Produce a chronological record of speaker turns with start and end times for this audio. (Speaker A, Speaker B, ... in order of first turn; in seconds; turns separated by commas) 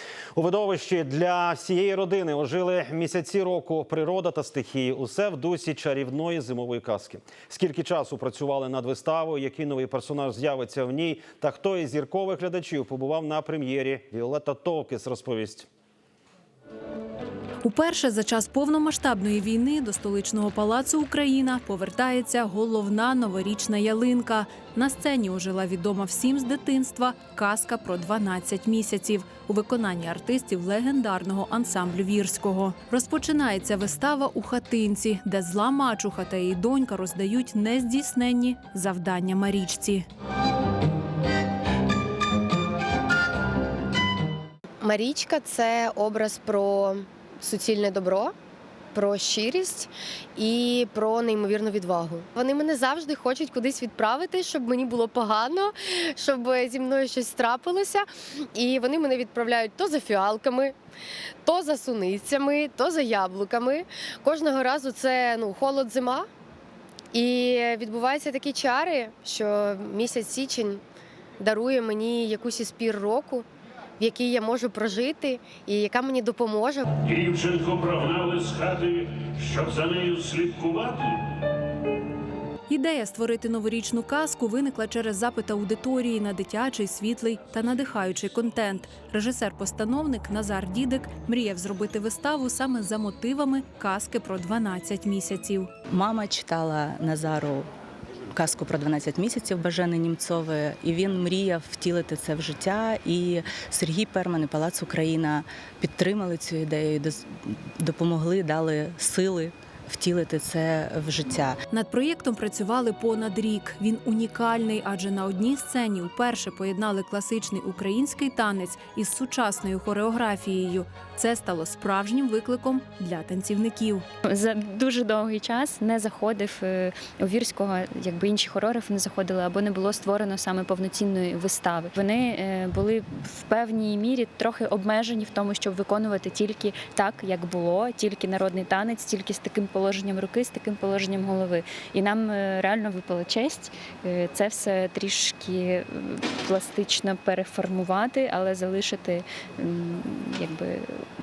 Speaker A: 0.3-15.7, Speaker B: 17.6-40.0, Speaker C: 44.8-48.3, Speaker C: 48.9-60.8, Speaker C: 61.4-66.2, Speaker C: 67.1-70.8, Speaker C: 71.4-73.5, Speaker C: 74.0-76.8, Speaker D: 77.0-81.2, Speaker B: 82.7-95.7, Speaker E: 95.9-97.7, Speaker E: 98.3-111.6, Speaker B: 111.7-124.0, Speaker F: 124.3-151.1